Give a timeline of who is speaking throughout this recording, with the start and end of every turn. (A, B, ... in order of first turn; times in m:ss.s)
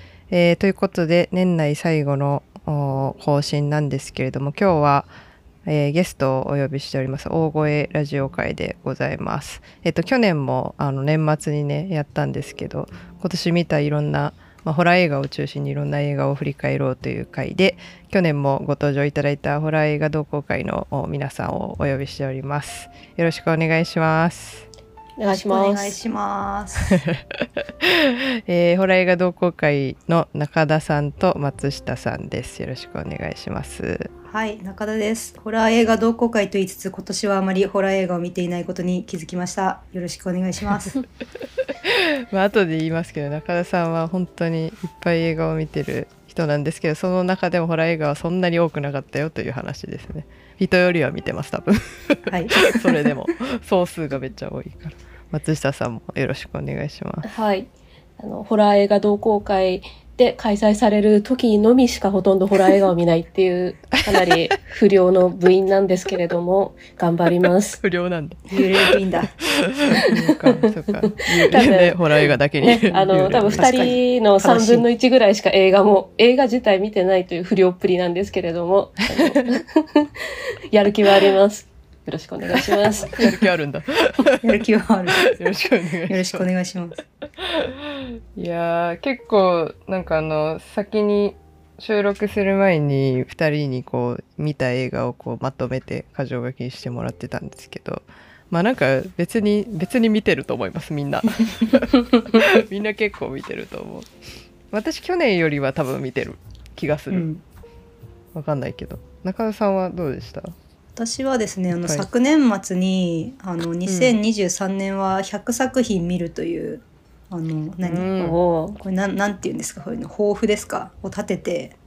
0:00.3-0:05.1 A
0:05.7-0:24.7 A
0:25.2-0:26.0 B
0:25.3-0:27.0 C
0:26.9-0:34.1 A
0:34.3-0:41.0 C
0:41.8-0:57.3 A
0:52.3-0:53.1 C
0:57.2-1:07.8 B
1:07.8-1:14.8 A
1:08.5-1:09.4 C
1:10.0-1:10.6 B
1:11.2-1:12.0 B
1:12.6-1:23.5 B
1:13.6-1:14.0 C
1:19.2-1:19.6 A
1:22.5-1:24.6 A
1:24.4-1:25.4 C
1:25.2-1:26.5 A
1:26.1-1:27.0 C
1:27.4-1:44.1 A
1:44.7-1:47.3 A
1:47.1-1:47.4 C
1:48.3-1:50.6 A
1:51.0-1:58.1 C
1:51.7-1:52.1 A
1:53.9-1:54.2 A
1:57.8-1:58.4 A
1:58.2-1:58.8 B
1:58.8-2:01.8 C